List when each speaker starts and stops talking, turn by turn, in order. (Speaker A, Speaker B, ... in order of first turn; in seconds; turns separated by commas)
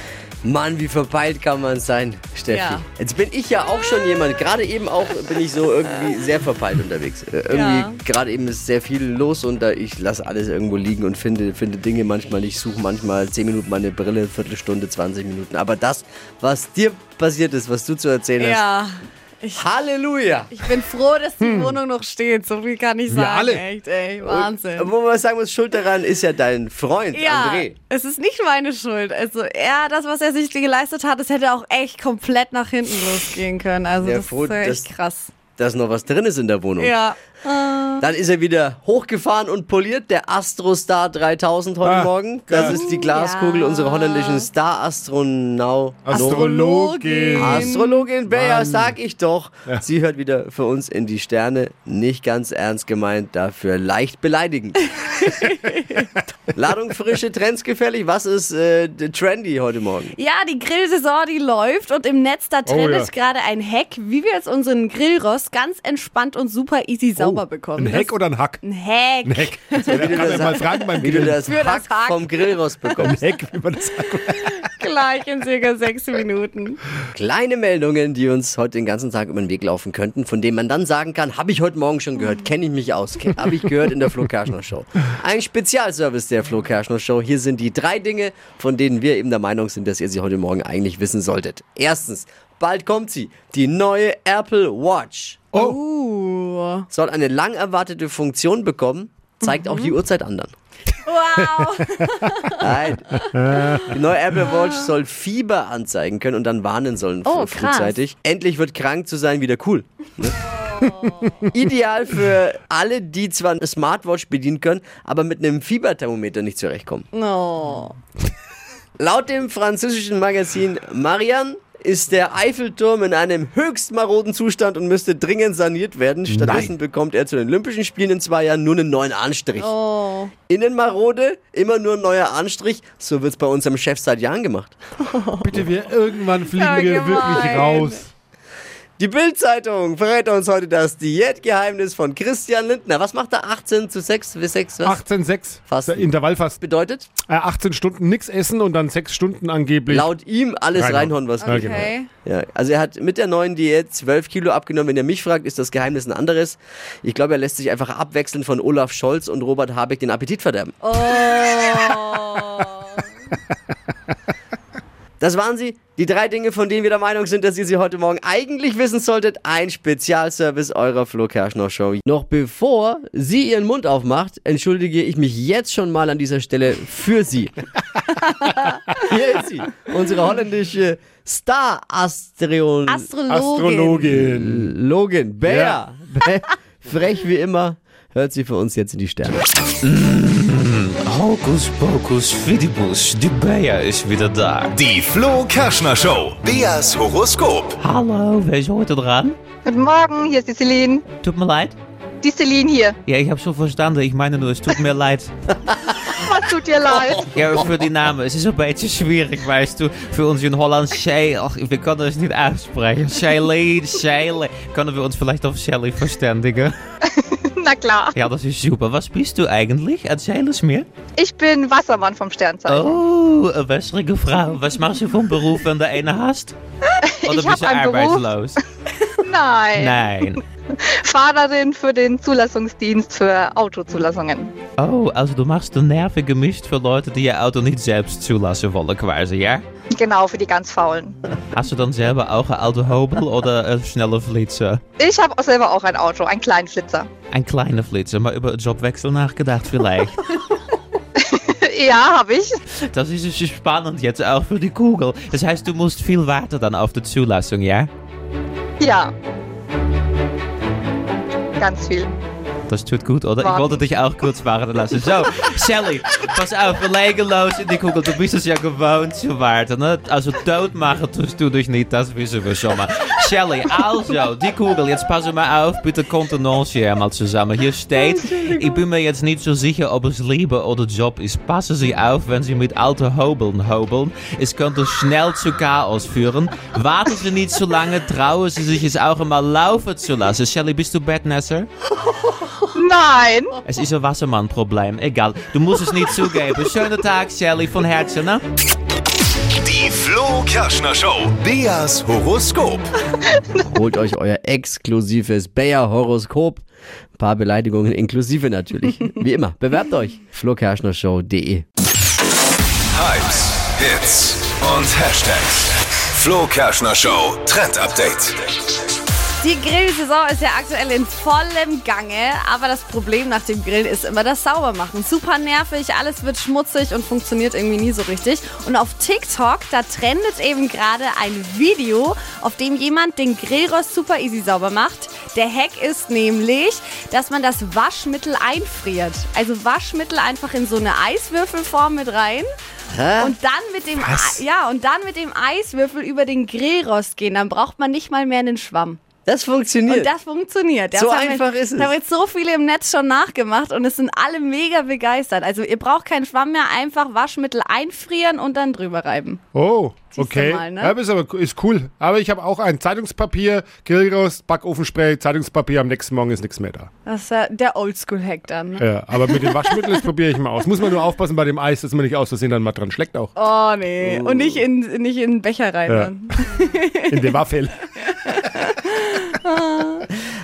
Speaker A: 0.4-18.6, Speaker B: 2.5-2.9, Speaker B: 7.5-8.0, Speaker B: 18.4-19.6, Speaker A: 19.6-20.5, Speaker B: 20.5-24.9, Speaker C: 21.4-21.8, Speaker C: 23.1-23.6, Speaker A: 24.2-27.8, Speaker B: 27.1-35.3, Speaker A: 34.0-34.9, Speaker A: 35.6-37.0, Speaker B: 36.8-38.1, Speaker A: 38.0-46.5, Speaker C: 41.8-42.8, Speaker B: 42.5-44.5, Speaker C: 46.1-47.7, Speaker B: 46.1-48.1, Speaker A: 47.4-54.9, Speaker C: 48.3-49.0, Speaker B: 55.0-56.1, Speaker A: 56.5-60.1, Speaker B: 60.2-73.2, Speaker C: 62.7-63.1, Speaker C: 67.2-68.6, Speaker C: 69.2-71.4, Speaker A: 69.9-73.2, Speaker C: 73.0-74.7, Speaker B: 74.3-76.8, Speaker A: 77.1-95.5, Speaker B: 95.5-96.9, Speaker A: 96.9-100.5, Speaker B: 99.4-99.9, Speaker B: 101.0-104.5, Speaker A: 102.6-103.2, Speaker C: 103.3-103.9, Speaker A: 103.9-110.4, Speaker B: 107.2-108.0, Speaker B: 110.5-111.4, Speaker A: 111.5-117.1, Speaker B: 117.1-118.0, Speaker A: 119.0-129.8, Speaker C: 126.3-126.7, Speaker B: 129.6-130.3, Speaker A: 130.5-134.8, Speaker B: 135.1-135.7, Speaker C: 135.4-138.1, Speaker B: 136.5-138.0, Speaker A: 139.0-145.0, Speaker C: 144.8-146.6, Speaker A: 145.7-146.1, Speaker A: 146.6-147.1, Speaker C: 147.3-150.1, Speaker A: 149.9-160.8, Speaker C: 150.8-151.8, Speaker B: 151.4-152.1, Speaker B: 160.8-163.1, Speaker A: 165.2-177.5, Speaker A: 179.1-183.1, Speaker B: 182.9-184.1, Speaker C: 183.3-184.7, Speaker A: 184.1-189.4, Speaker C: 185.4-185.8, Speaker D: 189.8-194.8, Speaker E: 194.8-197.8, Speaker D: 197.8-199.4, Speaker F: 199.7-201.0, Speaker D: 201.2-201.8, Speaker F: 202.2-203.0, Speaker D: 203.1-205.3, Speaker A: 205.7-206.1, Speaker F: 206.1-207.3, Speaker A: 206.9-207.2, Speaker D: 207.3-216.7, Speaker F: 217.1-218.1, Speaker D: 218.1-220.9, Speaker F: 221.2-223.0, Speaker D: 222.7-226.6, Speaker F: 227.1-228.5, Speaker D: 227.3-228.6, Speaker F: 229.2-234.5, Speaker D: 229.7-230.4, Speaker D: 234.8-239.7, Speaker F: 240.0-241.2, Speaker D: 241.5-244.8, Speaker F: 245.0-247.1, Speaker D: 247.3-250.2, Speaker F: 251.3-252.5, Speaker D: 252.9-257.9, Speaker F: 258.8-259.1, Speaker F: 261.6-262.1, Speaker D: 262.7-291.7, Speaker F: 263.4-263.8, Speaker F: 292.8-293.6, Speaker D: 293.6-298.4, Speaker E: 299.6-302.9, Speaker A: 303.6-306.6, Speaker A: 307.2-311.6, Speaker E: 312.9-318.4, Speaker B: 319.4-342.5, Speaker A: 342.9-343.4, Speaker B: 343.2-349.0, Speaker A: 344.0-344.4, Speaker A: 349.3-350.1, Speaker B: 349.9-359.4, Speaker A: 350.9-351.9, Speaker C: 359.5-366.9, Speaker B: 360.1-361.0, Speaker B: 367.1-370.1, Speaker C: 368.8-373.3, Speaker B: 373.4-377.3, Speaker A: 374.0-374.6, Speaker C: 375.9-376.1, Speaker C: 377.1-377.9, Speaker B: 378.0-380.1